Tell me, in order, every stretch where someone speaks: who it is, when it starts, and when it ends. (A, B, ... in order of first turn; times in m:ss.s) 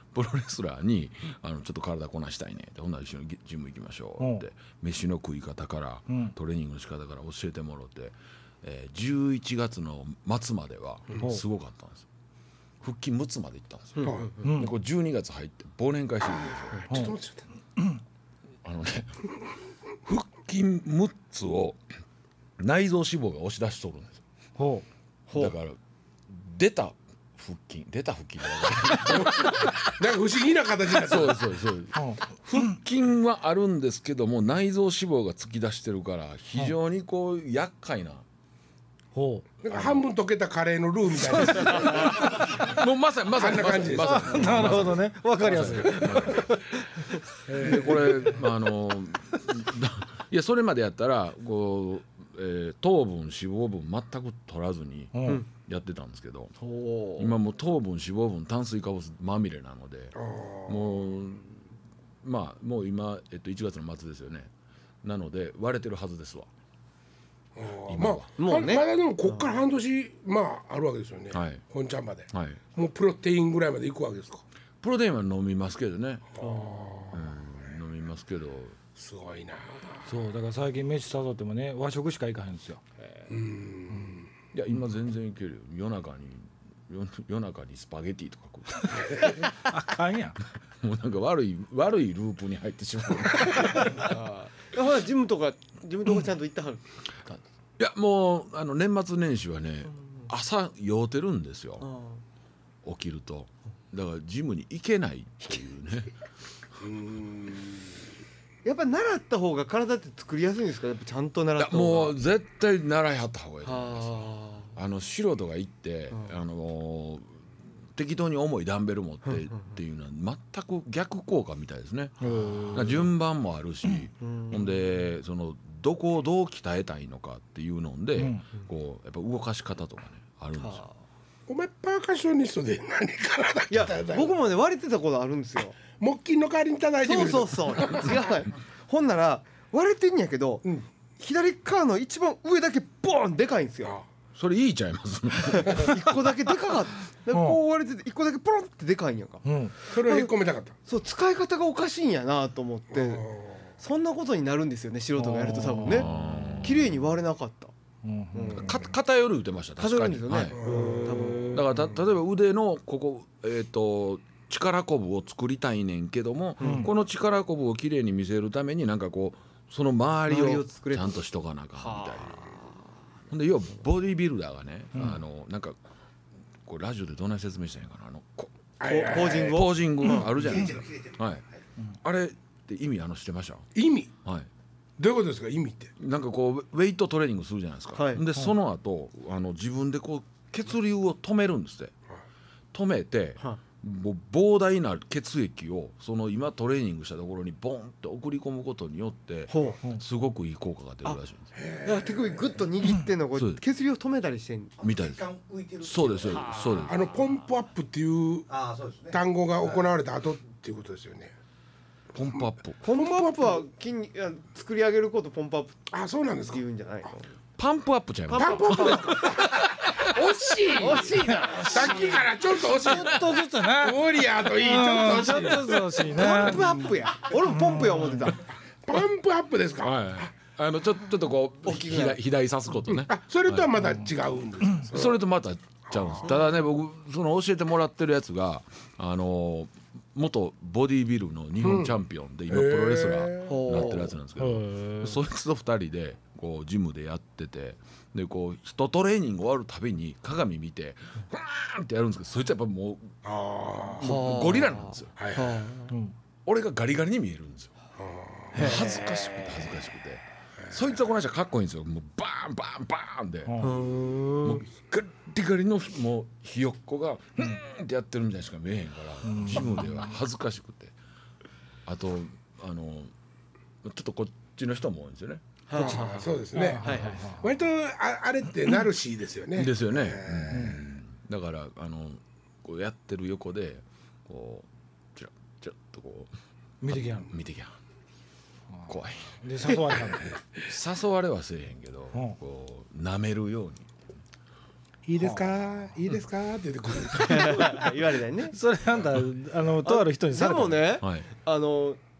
0:00.1-0:12.0 A
0:06.1-0:06.3 B
0:12.8-0:16.9 A
0:14.0-0:14.3 C
0:14.4-0:14.7 B
0:16.8-0:17.4 C
0:16.9-0:17.2 B
0:18.6-0:19.3 A
0:20.0-0:21.8 A
0:22.6-0:24.2 A
0:24.6-0:24.8 B
0:25.3-0:25.5 D
0:25.3-0:25.8 A
0:26.3-0:30.0 A
0:29.0-0:31.4 C
0:30.9-0:38.2 A
0:31.9-0:32.2 B
0:39.1-0:39.4 B
0:39.6-0:42.4 C
0:39.7-0:40.0 A
0:41.5-0:46.5 A
0:43.3-0:45.0 C
0:43.9-0:46.7 B
0:45.6-0:46.3 D
0:47.5-0:48.3 C
0:47.6-0:56.5 A
0:55.1-0:55.4 B
0:56.6-0:57.3 D
0:57.2-1:00.2 A
1:00.1-1:01.0 C
1:00.7-1:01.7 A
1:02.2-1:04.5 A
1:05.0-1:06.5 A
1:07.6-1:14.4 C
1:07.9-1:08.3 A
1:08.4-1:09.3 D
1:11.3-1:11.6 A
1:12.3-1:12.6 A
1:14.8-1:16.4 A
1:16.4-1:17.1 D
1:16.4-1:17.2 C
1:17.1-1:18.8 A
1:18.9-1:20.1 C
1:20.0-1:22.8 B
1:23.3-1:24.2 C
1:24.5-1:29.4 A
1:28.8-1:30.4 B
1:30.8-1:34.1 A
1:33.7-1:37.4 D
1:37.8-1:41.9 A
1:41.8-1:42.2 D
1:42.8-1:46.1 A
1:46.8-1:47.9 C
1:48.6-1:52.2 D
1:51.6-1:57.4 A
1:53.6-1:54.7 D
1:57.9-2:02.1 A
2:02.2-2:02.8 D
2:02.2-2:03.1 B
2:02.7-2:10.8 A
2:04.2-2:04.8 D
2:08.2-2:08.4 B
2:10.6-2:10.9 D
2:11.5-2:14.3 C
2:13.7-2:15.8 D
2:16.0-2:18.4 C
2:17.0-2:24.0 D
2:24.3-2:26.2 A
2:25.5-2:30.3 D
2:27.3-2:27.6 B
2:29.4-2:29.7 B
2:29.9-2:30.7 C
2:30.8-2:36.1 D
2:32.9-2:33.6 C
2:35.2-2:36.5 B
2:35.9-2:36.9 A
2:36.6-2:37.7 D
2:38.0-2:38.8 B
2:38.3-2:38.8 D
2:38.5-2:40.6 A
2:39.8-2:41.6 D
2:40.5-2:41.5 C
2:41.5-2:52.4 A
2:46.6-2:46.9 D
2:46.6-2:46.9 B
2:50.3-2:51.2 D
2:51.8-2:52.6 D
2:53.3-2:55.8 A
2:54.9-2:55.2 B
2:56.6-2:58.5 A
2:58.8-2:59.7 C
2:58.8-3:00.3 D
2:59.0-3:01.4 A
3:00.1-3:01.6 E
3:02.0-3:03.7 A
3:03.7-3:04.1 C
3:05.0-3:05.9 C
3:06.0-3:11.9 A
3:08.0-3:08.2 D
3:12.7-3:21.5 A
3:19.5-3:19.8 D
3:21.5-3:22.6 C
3:21.8-3:24.7 D
3:23.4-3:23.6 A
3:24.8-3:26.7 E
3:24.8-3:25.2 A
3:25.8-3:27.0 A
3:26.5-3:27.3 D
3:26.8-3:28.5 C
3:28.5-3:29.2 E
3:29.1-3:31.3 C
3:32.1-3:32.8 A
3:32.3-3:33.6 C
3:32.8-3:35.9 D
3:35.9-3:36.6 C
3:36.5-3:37.3 D
3:37.6-3:40.7 A
3:38.3-3:39.5 D
3:38.3-3:46.9 C
3:40.8-3:42.1 D
3:42.8-3:46.6 B
3:42.8-3:43.4 A
3:44.9-3:48.5 D
3:47.5-3:48.3 B
3:48.8-3:50.3 C
3:49.8-3:53.7 A
3:51.6-3:52.2 D
3:53.1-3:55.2 C
3:54.9-4:13.2 A
3:55.9-3:56.3 C
4:01.6-4:01.9 C
4:02.5-4:03.9 C
4:03.4-4:04.1 D
4:04.4-4:05.2 B
4:13.2-4:14.2 C
4:14.0-4:15.1 A
4:14.0-4:15.9 D
4:15.2-4:15.5 C
4:16.4-4:17.7 A
4:18.0-4:19.0 C
4:18.5-4:23.5 A
4:23.5-4:23.8 B
4:23.6-4:24.6 D
4:24.4-4:30.9 A
4:29.2-4:30.1 B
4:31.8-4:33.1 A
4:33.8-4:36.1 A
4:35.7-4:36.3 D
4:35.7-4:40.8 C
4:36.5-4:37.4 B
4:36.8-4:37.2 D
4:39.5-4:46.3 A
4:40.5-4:40.8 B
4:46.8-4:47.3 B
4:46.9-4:47.7 A
4:48.8-4:50.4 B
4:48.9-4:49.4 A
4:50.6-4:53.9 A
4:55.0-4:57.8 C
4:55.2-4:55.5 B
4:57.2-4:58.6 D
4:58.5-5:01.0 B
4:59.8-5:02.0 D
5:01.0-5:01.3 A